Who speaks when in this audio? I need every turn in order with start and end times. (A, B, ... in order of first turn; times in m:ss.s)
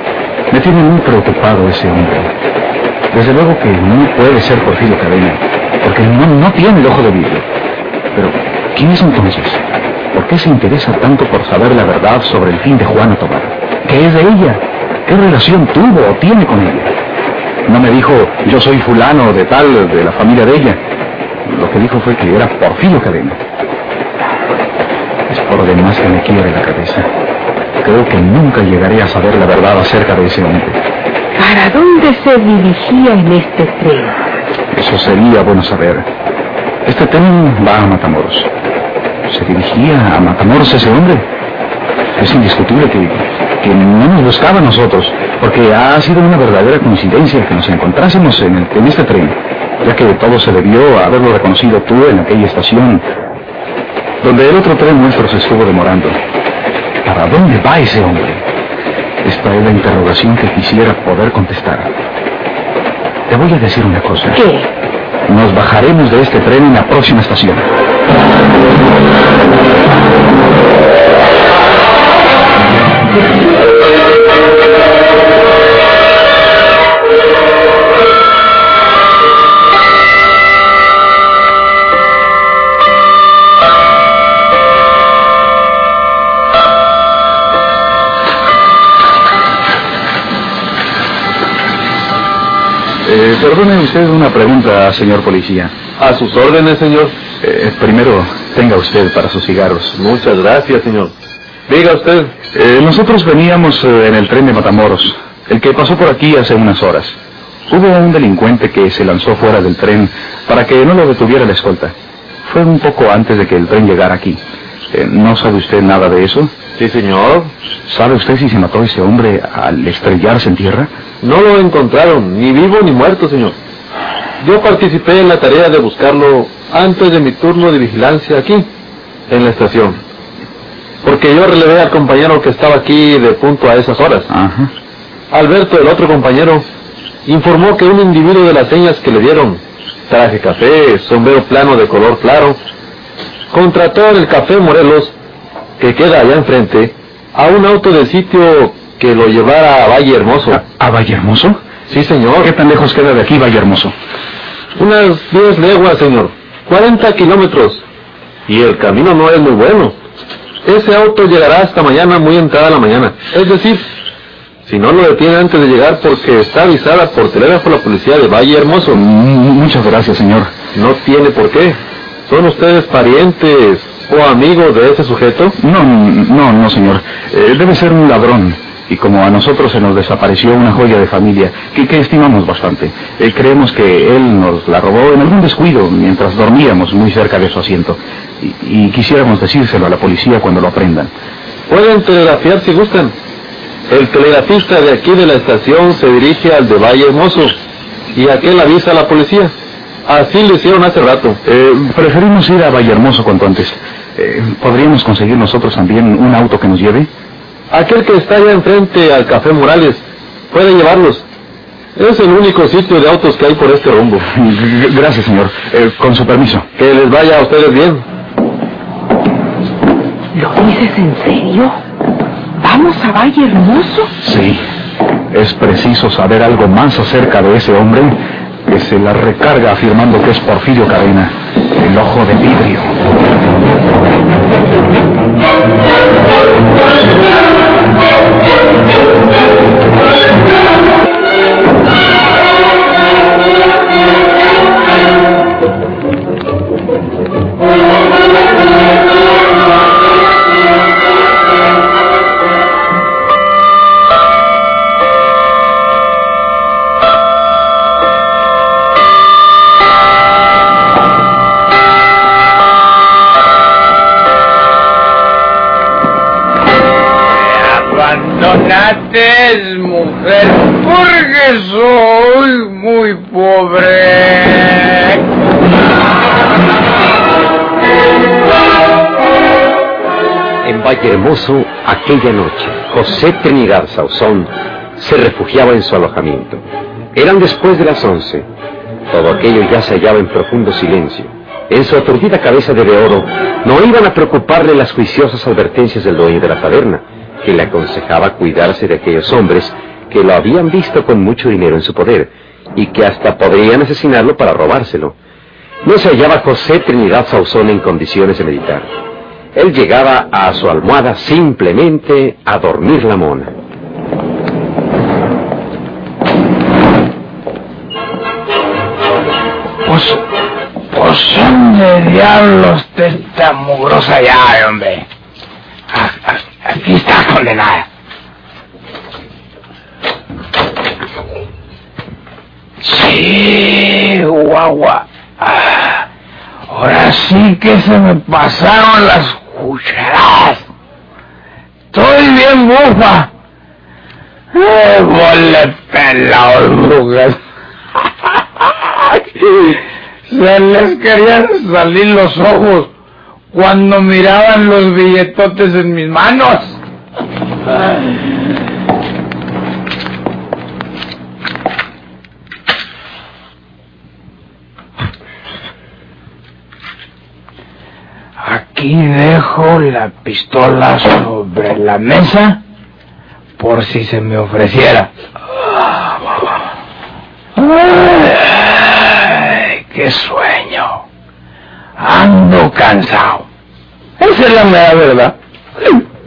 0:00.5-0:02.3 A
0:03.1-0:07.5 A
0:08.1-0:09.6 A
0:10.1-0:16.9 A
0:17.7-0:20.8 A
0:21.4-0:23.4 A
0:25.3-0:27.1 A
0:27.8-0:30.8 A
0:31.4-0:34.2 B
0:34.7-0:36.1 A
0:36.8-0:38.5 A
0:39.3-0:41.3 A
0:42.2-0:53.1 A
0:54.2-0:56.2 A
0:57.0-0:58.4 A
0:59.2-1:01.9 A
1:03.3-1:04.4 A
1:04.3-1:04.7 B
1:05.3-1:07.7 A
1:33.0-1:35.7 A
1:36.0-1:37.2 C
1:37.4-1:40.0 A
1:39.9-1:41.2 C
1:41.7-1:42.4 C
1:42.5-1:56.5 A
1:56.8-1:57.5 C
1:57.9-2:00.9 A
2:01.2-2:03.6 C
2:04.4-2:08.7 C
2:09.3-2:10.0 C
2:11.0-2:14.3 C
2:14.3-2:14.7 A
2:15.3-2:16.7 C
2:17.3-2:22.6 C
2:23.5-2:25.2 C
2:25.8-2:30.6 C
2:30.5-2:31.6 A
2:31.9-2:32.5 C
2:32.4-2:34.0 A
2:34.8-2:37.8 C
2:38.5-2:40.0 C
2:40.6-2:43.9 C
2:44.6-2:49.0 C
2:48.9-2:50.5 A
2:50.7-2:55.6 C
2:55.6-3:11.1 A
3:11.7-3:13.2 C
3:13.9-3:17.6 C
3:18.1-3:21.4 C
3:21.4-3:27.1 A
3:27.7-3:31.3 C
3:32.0-3:34.3 C
3:34.2-3:36.7 A
3:36.8-3:38.1 C
3:40.3-3:41.8 B
3:42.6-3:44.1 B
3:44.2-3:44.6 A
3:45.3-3:53.0 A
4:27.4-4:35.3 D
4:40.6-4:48.5 E
4:49.1-5:05.2 E
5:05.8-5:08.9 E
5:09.6-5:13.5 E
5:19.8-5:20.2 D
5:20.9-5:25.1 D
5:25.9-5:27.9 D
5:32.8-5:36.0 D
5:36.7-5:40.7 D
5:41.9-5:43.3 D
5:44.5-5:47.4 D
5:48.6-5:52.9 D
5:53.5-5:56.8 D
6:08.4-6:12.6 D
6:13.6-6:15.1 D
6:17.6-6:21.0 D
6:22.0-6:23.5 D
6:24.2-6:25.3 D